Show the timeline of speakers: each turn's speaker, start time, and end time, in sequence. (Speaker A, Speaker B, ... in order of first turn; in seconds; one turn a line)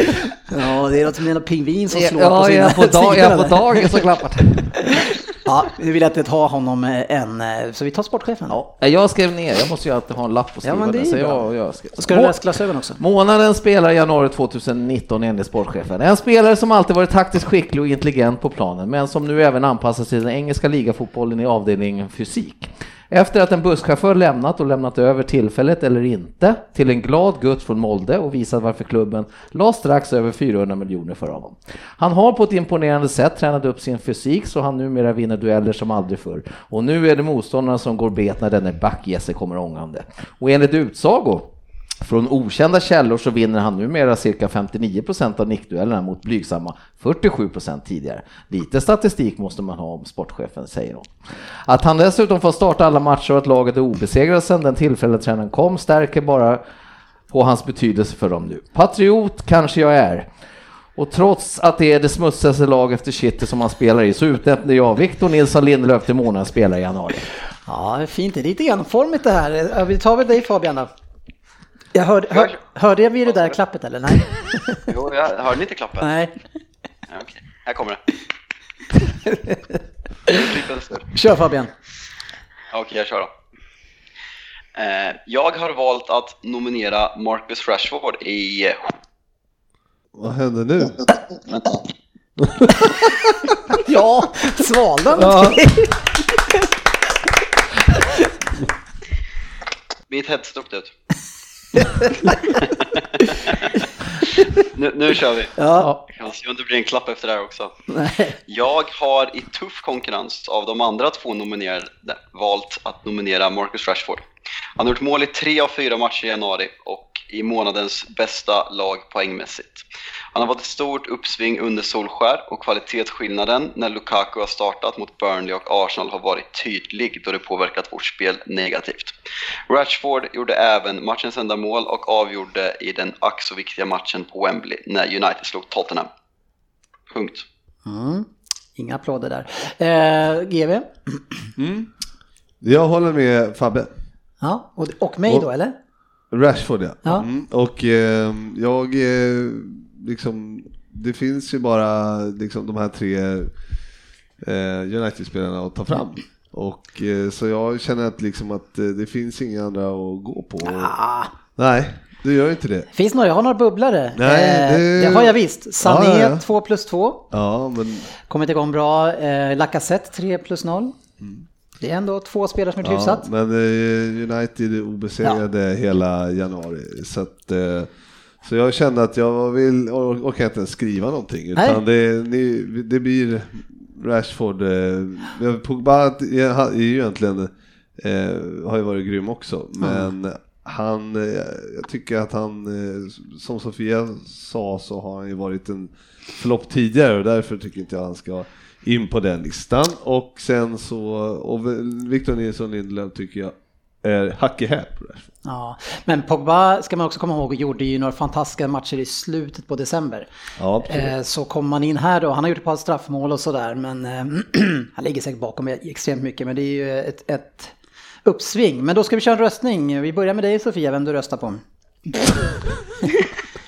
Speaker A: 0.5-4.0
Speaker B: 1.9-5.1
Speaker A: 4.8-8.6
Speaker B: 8.5-41.5
Speaker A: 10.6-13.0
Speaker B: 42.0-56.6
Speaker B: 57.3-60.3
Speaker B: 61.0-67.3
Speaker A: 67.7-70.9
Speaker A: 71.9-74.8
Speaker C: 72.3-72.6
Speaker C: 74.9-76.1
Speaker A: 76.0-76.3
Speaker C: 77.1-78.0
Speaker A: 79.3-79.8
Speaker C: 80.3-81.1
Speaker A: 81.1-81.7
Speaker C: 82.7-83.3
Speaker C: 84.8-89.0
Speaker D: 90.1-91.1
Speaker D: 92.4-93.3
Speaker A: 93.9-96.5
Speaker D: 95.2-95.7
Speaker C: 100.1-100.9
Speaker A: 101.8-102.6
Speaker C: 102.6-103.8
Speaker C: 104.4-105.5
Speaker A: 105.6-105.9
Speaker C: 106.1-107.7
Speaker A: 107.9-108.3
Speaker C: 108.5-114.2
Speaker C: 114.8-129.1
Speaker C: 129.7-136.1
Speaker C: 137.1-137.5
Speaker A: 137.9-141.5
Speaker D: 141.6-141.9
Speaker D: 142.6-143.9
Speaker A: 144.4-145.8
Speaker D: 146.3-153.5
Speaker D: 154.4-160.9
Speaker A: 160.6-161.3
Speaker D: 161.6-162.9
Speaker A: 162.9-167.3
Speaker D: 164.2-166.4
Speaker D: 167.3-168.1
Speaker A: 168.3-170.9
Speaker A: 171.8-173.3
Speaker D: 172.8-177.9
Speaker D: 178.4-205.3
Speaker A: 189.8-190.1
Speaker A: 205.4-210.3
Speaker D: 210.6-211.1
Speaker A: 210.8-217.7
Speaker A: 218.2-221.6